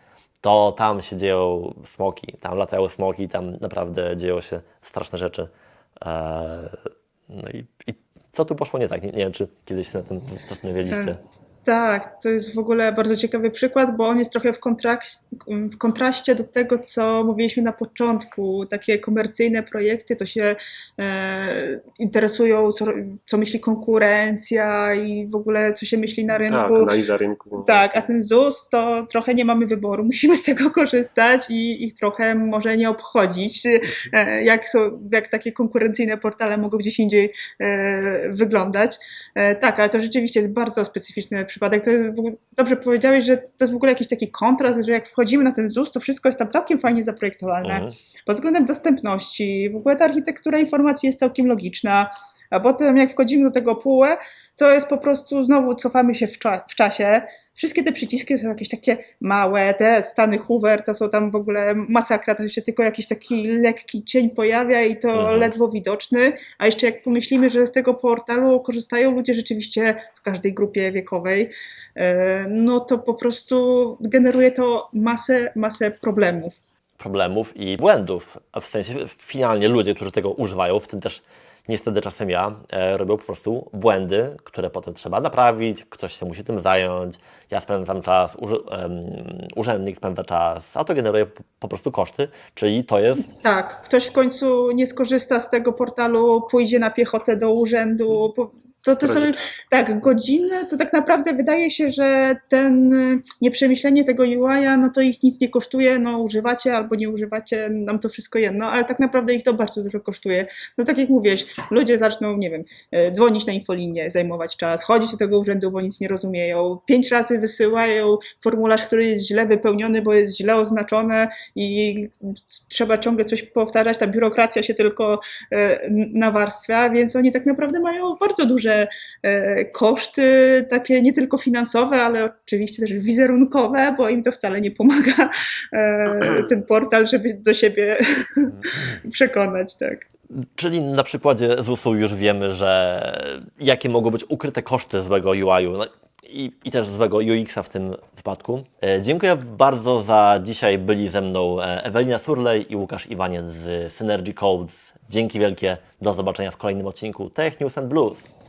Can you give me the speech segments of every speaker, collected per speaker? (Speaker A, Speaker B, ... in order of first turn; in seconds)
Speaker A: 0.4-11.2, 47.6-47.9, 65.1-65.5, 77.0-93.3, 140.3-158.3
Speaker B: 10.9-26.9, 27.6-76.6, 93.3-140.1
Speaker C: 26.5-28.2, 98.9-99.6